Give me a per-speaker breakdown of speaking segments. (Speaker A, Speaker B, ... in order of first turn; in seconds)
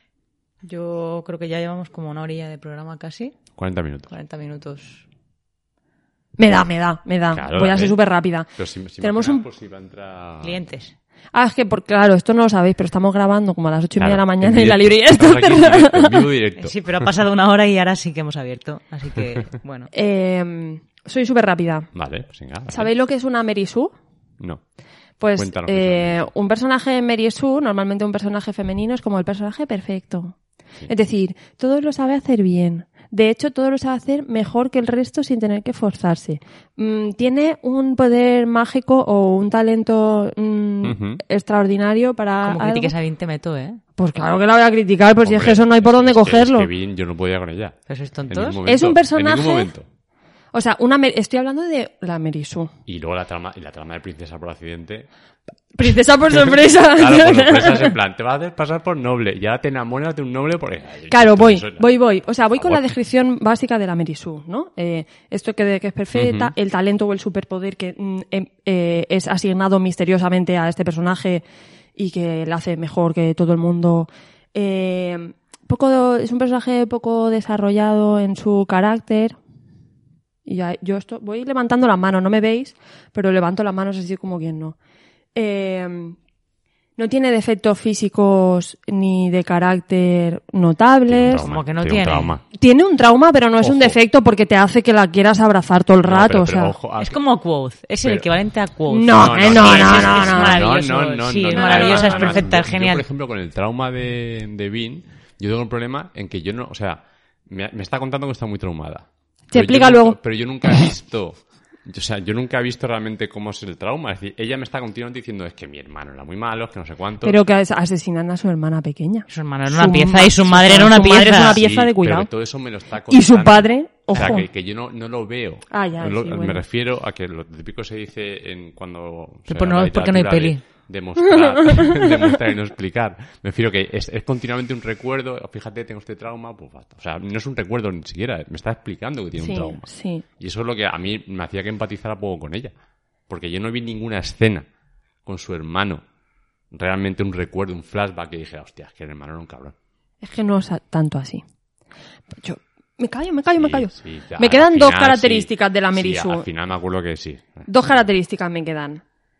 Speaker A: 0.6-3.4, 4.1-5.0, 10.4-10.9, 16.6-19.9, 42.4-43.8, 47.9-48.6, 91.3-92.3, 97.0-103.0, 119.3-121.6, 129.5-130.6
Speaker B: 3.6-4.1, 7.3-8.0, 8.6-10.6, 14.0-17.1, 21.9-22.9, 25.4-26.3, 40.8-41.2, 45.2-47.8, 48.3-49.9, 52.9-55.1, 56.7-61.9, 62.5-62.8, 66.1-66.5, 91.1-92.4, 93.6-94.0, 96.0-97.2, 99.1-117.4, 121.4-139.9, 140.4-142.7, 143.3-144.7, 145.2-146.0, 146.7-149.8, 153.6-158.1
Speaker C: 6.4-9.4, 11.3-16.3, 19.9-21.9, 22.7-23.9, 25.2-42.9, 44.0-46.7, 48.6-49.7, 50.5-52.7, 55.7-58.0, 61.1-71.4, 72.0-79.4, 80.5-84.8, 85.3-86.2, 87.0-91.5, 92.5-96.8, 98.9-100.7, 101.5-102.5, 109.5-110.2, 117.2-122.3, 123.1-124.5, 125.7-126.6, 131.3-132.4, 139.4-140.2, 150.2-151.4, 152.3-156.5, 157.7-159.0